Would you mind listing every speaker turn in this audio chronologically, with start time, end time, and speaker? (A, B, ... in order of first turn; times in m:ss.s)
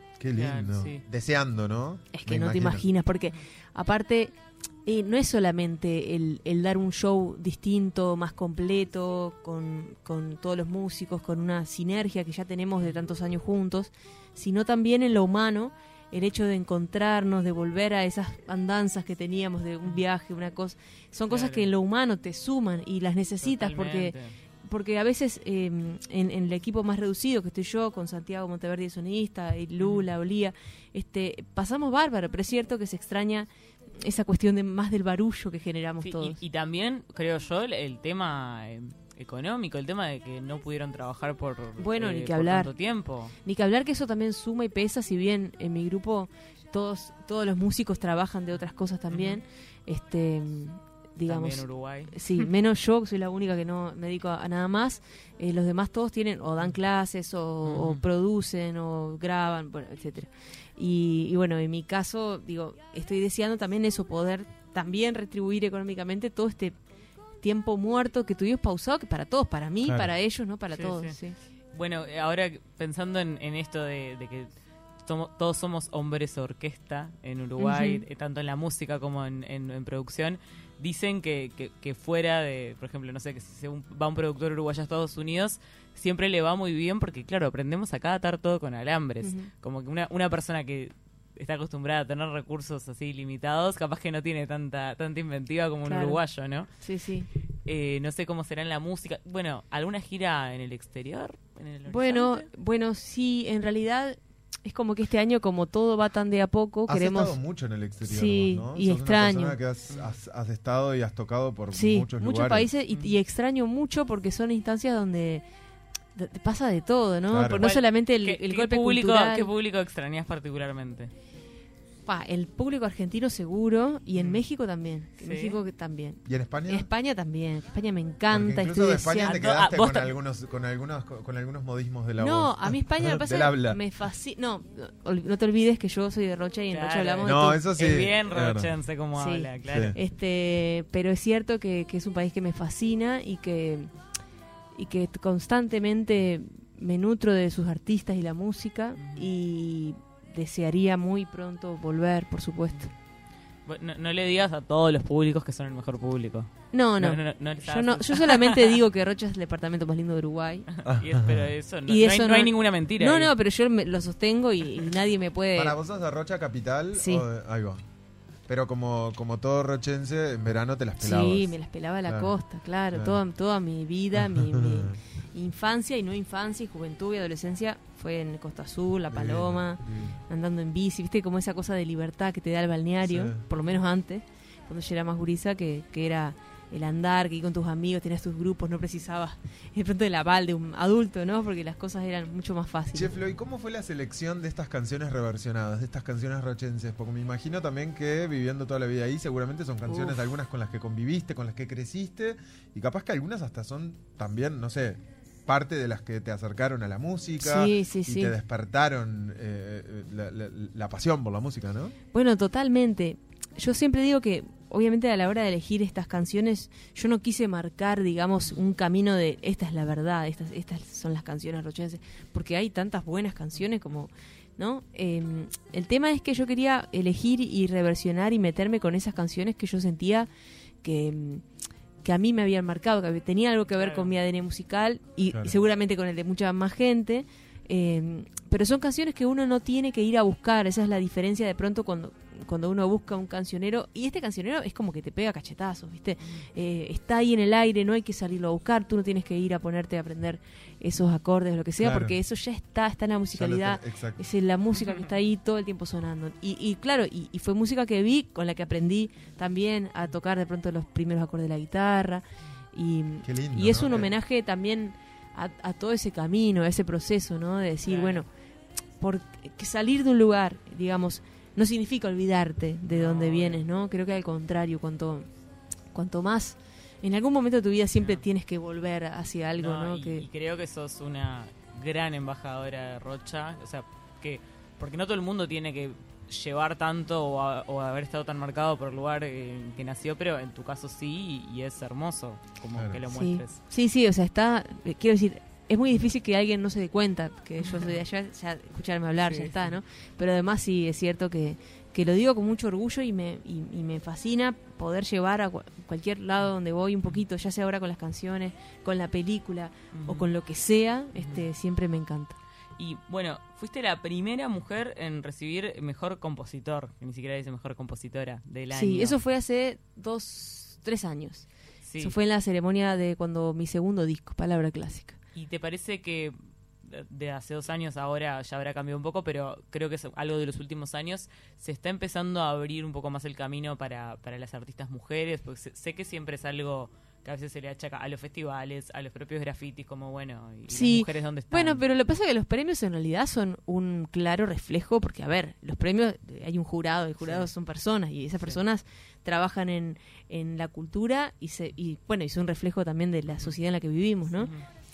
0:00.2-0:02.8 A
0:00.3-0:01.0 B
0:02.1-0:33.5 C
0:21.3-0:21.7 B
0:23.4-0:24.3 B
0:29.8-0:30.1 B
0:34.0-0:36.4 C
0:36.0-0:43.3 B
0:41.8-0:42.7 C
0:43.4-1:06.8 C
0:49.1-0:49.4 B
0:51.3-0:52.4 B
0:57.6-0:58.0 B
1:07.4-1:11.4 C
1:10.7-1:11.2 B
1:11.7-1:14.5 B
1:15.0-1:36.7 B
1:17.6-1:18.0 C
1:29.2-1:29.5 C
1:35.8-1:36.2 C
1:36.8-1:37.3 C
1:37.6-1:42.5 B
1:41.9-1:47.4 C
1:46.9-1:52.7 A
1:48.0-1:49.6 C
1:51.7-1:55.4 C
1:56.2-1:59.5 C
1:57.3-1:57.6 A
1:57.6-2:01.1 B
2:02.0-2:09.4 C
2:04.2-2:04.4 B
2:05.2-2:05.6 B
2:06.2-2:06.9 A
2:08.3-2:13.8 A
2:09.3-2:10.1 B
2:12.2-2:17.6 C
2:16.7-2:20.0 B
2:17.2-2:18.7 A
2:19.2-2:23.9 C
2:19.7-2:20.0 A
2:24.8-2:32.9 C
2:29.0-2:29.3 B
2:33.6-2:38.8 B
2:36.7-2:40.6 C
2:40.8-2:43.3 B
2:40.8-2:41.5 A
2:41.9-2:45.8 C
2:45.5-2:47.8 A
2:46.9-2:47.2 C
2:48.5-2:51.5 A
2:51.0-3:13.1 C
2:52.0-2:52.3 A
2:52.9-2:53.2 A
2:54.2-2:54.9 A
2:59.1-3:00.1 A
3:03.0-3:03.4 A
3:12.9-3:31.9 A
3:19.9-3:20.2 C
3:27.4-3:28.3 C
3:32.1-3:50.3 C
3:50.8-3:51.4 C
3:52.0-4:22.2 C
3:53.8-3:54.1 B
4:06.2-4:06.5 B
4:11.8-4:12.1 A
4:13.3-4:14.2 A
4:22.7-4:28.3 C
4:23.2-4:24.1 A
4:27.8-4:28.2 B
4:29.0-4:35.3 C
4:32.9-4:33.6 B
4:35.9-4:40.2 C
4:38.0-4:38.2 B
4:39.6-4:53.6 B
4:52.7-4:53.0 A
4:53.1-5:12.4 C
4:57.6-4:58.0 B
4:59.2-4:59.7 B
5:09.9-5:10.3 B
5:11.1-5:11.5 B
5:12.8-5:19.2 B
5:18.7-5:21.5 C
5:21.9-5:22.1 B
5:22.0-5:25.2 C
5:25.3-5:41.8 B
5:40.7-5:54.5 C
5:47.2-5:47.5 B
5:54.4-5:54.6 B